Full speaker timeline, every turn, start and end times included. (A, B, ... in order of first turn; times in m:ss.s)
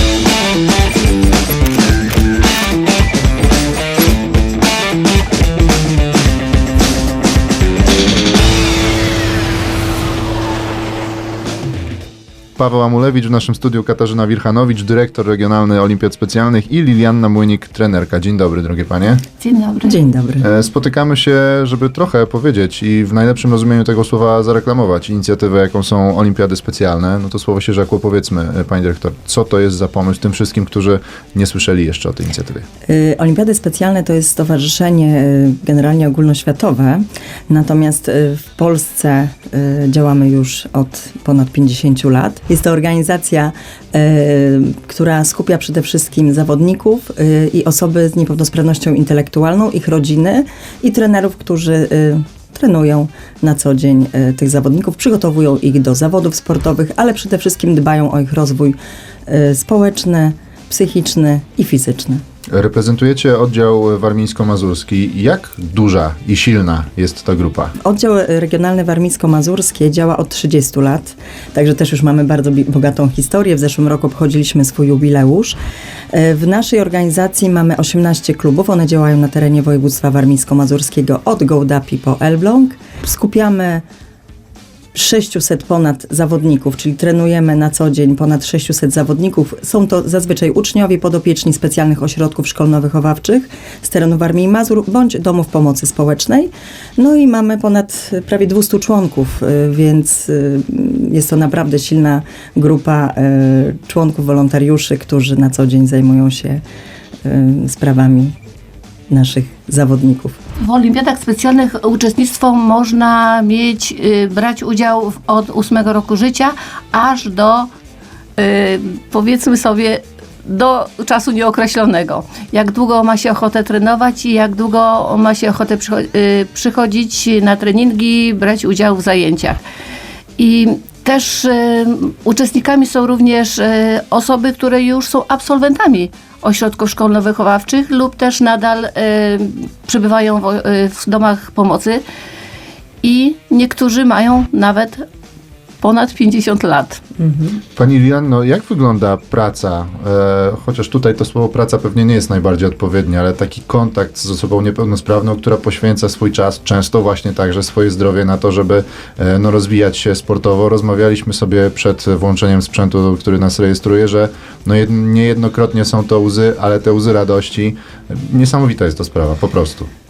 0:12.6-0:19.2 A
0:19.4-0:20.0 B
0:19.8-0:20.5 C
0:20.4-0:32.6 A
0:32.9-0:58.8 C
0:59.3-1:02.2 C
1:02.5-1:07.8 A
1:07.8-1:15.6 C
1:16.1-1:23.8 C
1:24.9-1:46.6 C
1:47.2-1:48.3 C
1:49.1-1:50.4 C
1:50.6-1:57.7 B
1:58.4-2:09.6 B
2:10.4-2:22.0 B
2:23.0-2:25.1 B
2:25.8-2:27.0 B
2:27.2-2:27.6 C
2:27.8-2:49.9 A